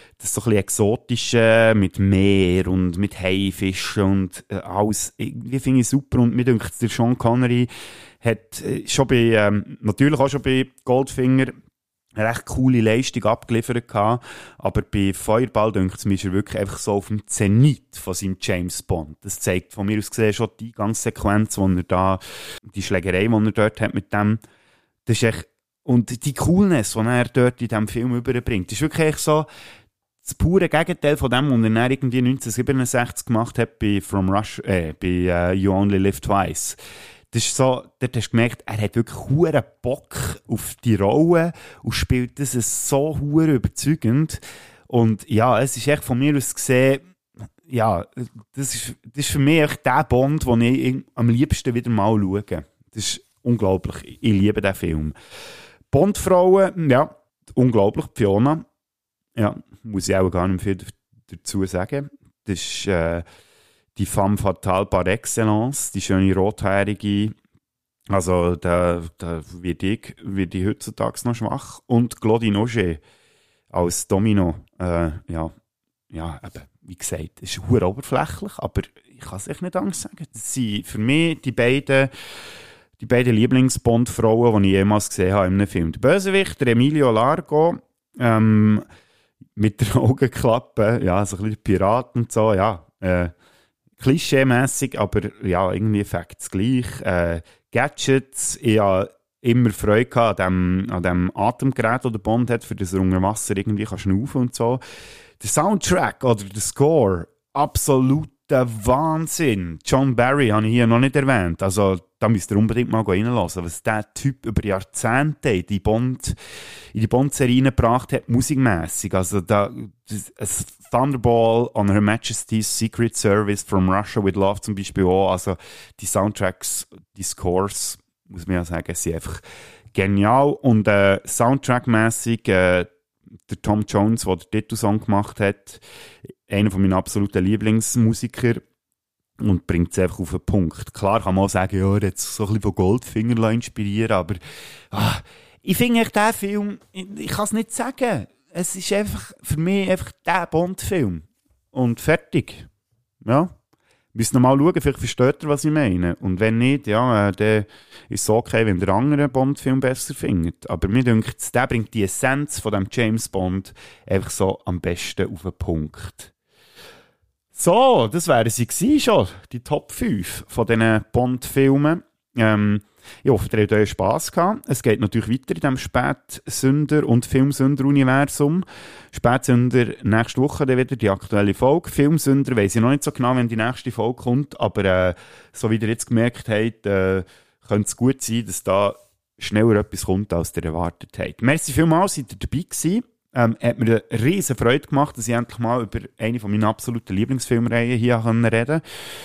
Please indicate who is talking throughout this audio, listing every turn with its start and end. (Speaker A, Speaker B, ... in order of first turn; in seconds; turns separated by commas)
Speaker A: 0.2-7.7, Speaker A: 8.2-11.6, Speaker A: 12.2-24.4, Speaker A: 25.1-29.5, Speaker A: 30.2-36.8, Speaker A: 37.3-47.0, Speaker A: 47.7-55.1, Speaker A: 55.9-58.6, Speaker A: 59.4-63.2, Speaker A: 64.0-67.3, Speaker A: 68.1-73.0, Speaker A: 73.7-75.5, Speaker A: 76.1-82.1, Speaker A: 83.0-88.8, Speaker A: 89.6-93.3, Speaker A: 94.0-104.8, Speaker A: 105.4-116.3, Speaker A: 116.9-129.4, Speaker A: 129.9-132.9, Speaker A: 133.5-135.8, Speaker A: 136.5-138.6, Speaker A: 139.4-144.4, Speaker A: 144.9-152.7, Speaker A: 153.2-153.5, Speaker A: 154.1-166.3, Speaker A: 167.6-198.8